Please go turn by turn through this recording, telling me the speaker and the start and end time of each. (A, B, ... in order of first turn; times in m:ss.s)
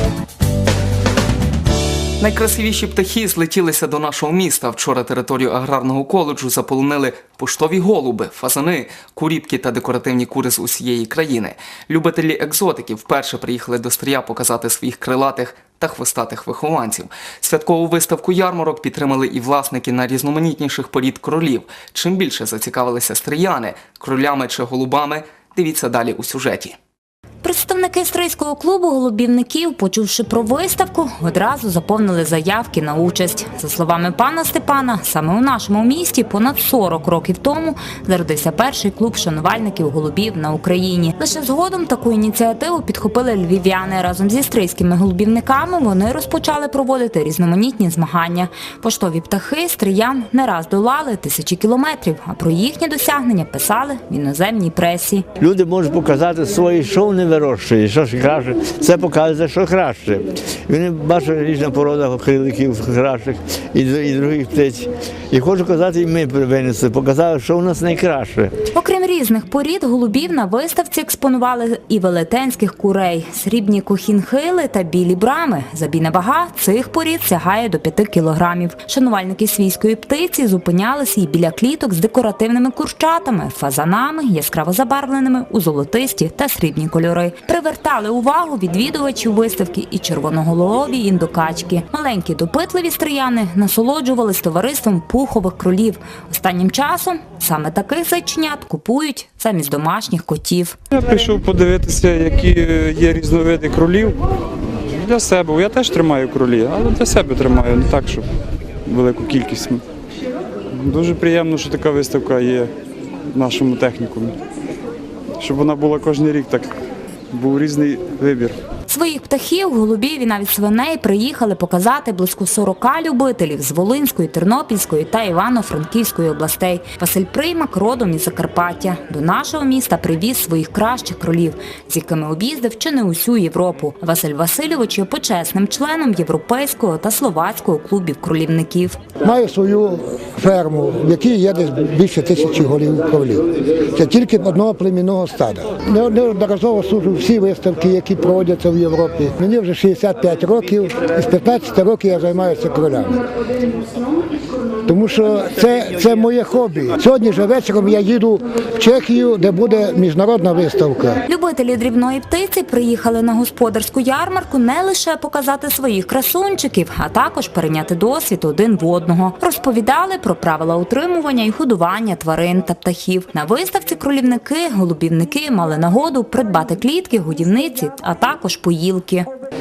0:02.2-0:26.8 A
0:27.4-0:55.2 B
0:55.4-1:08.5 C
1:08.7-1:40.8 B
1:40.9-1:44.2 D
1:44.9-1:48.3 D
1:48.9-1:49.8 D
1:50.8-1:52.7 D
1:53.3-1:54.4 D
1:55.4-1:56.7 D
1:57.3-1:58.6 D
1:58.9-2:19.0 B
2:19.2-2:33.2 E
2:34.9-2:41.2 E
2:41.3-2:59.3 B